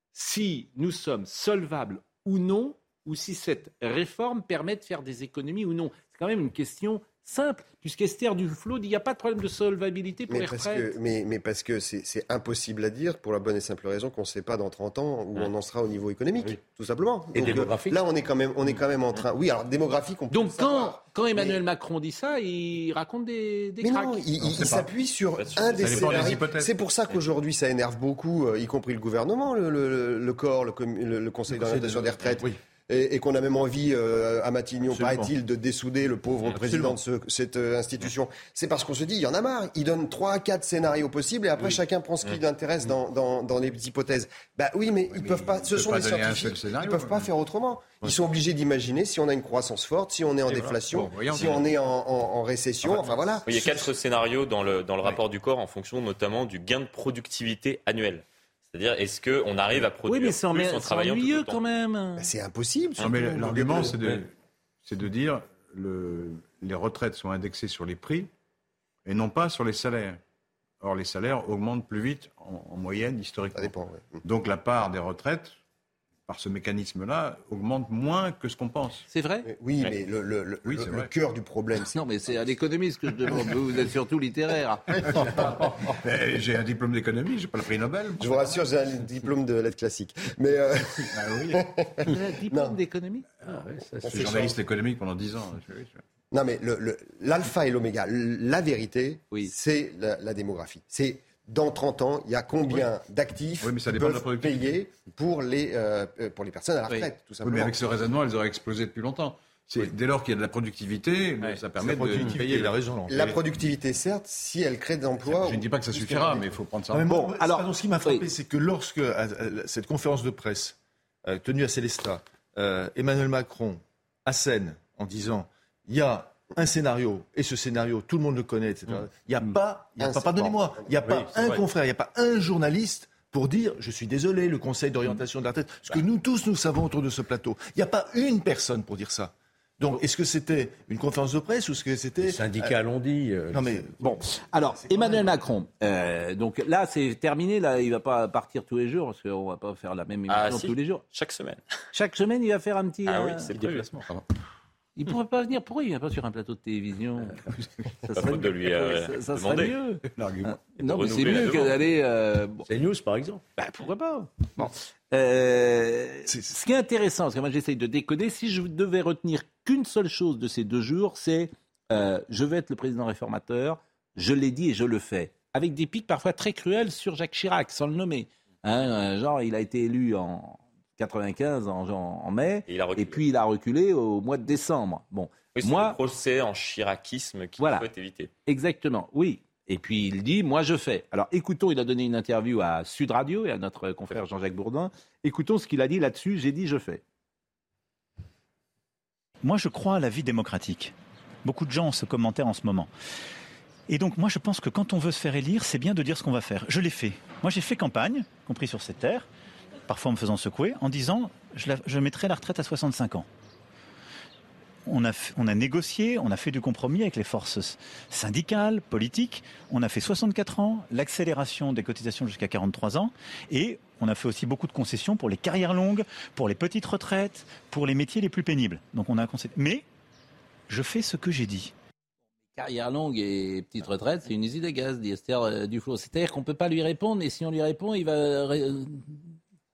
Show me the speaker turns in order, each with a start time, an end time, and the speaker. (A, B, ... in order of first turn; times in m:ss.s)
0:00.1-0:10.9 A
0:10.3-0:21.6 B
0:17.3-0:18.0 C
0:20.3-0:24.2 A
0:23.8-0:53.9 B
0:24.4-0:24.9 D
0:25.4-0:26.3 E
0:25.8-0:26.7 D
0:31.5-0:32.2 F
0:34.9-0:35.3 F
0:36.6-0:37.0 F
0:45.1-0:47.3 D
0:50.5-0:50.7 E
0:50.9-0:51.7 D
0:53.4-1:01.6 E
1:00.0-1:02.3 A
1:02.2-1:04.0 B
1:03.0-1:04.3 D
1:04.8-1:08.3 D
1:09.0-1:10.2 D
1:10.8-1:15.6 D
1:13.6-1:14.2 B
1:16.3-1:19.0 D
1:19.1-1:19.5 A
1:19.5-1:22.0 B
1:20.6-1:21.1 D
1:21.9-1:24.8 A
1:25.1-1:28.6 D
1:28.2-1:32.8 B
1:31.1-1:31.6 D
1:32.1-1:33.3 A
1:33.5-1:34.1 C
1:33.5-1:36.0 D
1:34.0-1:34.5 B
1:36.3-1:47.8 B
1:43.6-1:44.7 D
1:47.4-1:53.4 D
1:51.8-1:53.3 F
1:53.1-1:56.3 B
1:55.2-1:57.1 D
1:56.2-2:22.8 F
1:57.1-1:58.2 A
2:10.0-2:10.8 B
2:22.2-2:23.9 C
2:23.5-2:24.2 F
2:24.0-2:31.0 A
2:24.9-2:25.3 F
2:30.3-2:31.6 E
2:31.9-2:33.6 A
2:33.0-2:34.0 E
2:34.0-2:34.2 D
2:35.0-2:42.7 A
2:38.1-2:39.8 E
2:40.1-2:40.6 D
2:40.8-2:41.9 E
2:42.7-2:43.4 C
2:43.6-3:06.0 A
3:02.7-3:03.3 E
3:05.5-3:08.3 E
3:07.6-3:07.9 A
3:08.5-3:17.0 A
3:19.4-3:22.9 G
3:23.9-3:29.3 G
3:29.9-3:33.3 G
3:34.9-3:49.9 G
3:50.7-3:51.7 G
3:52.6-3:59.2 A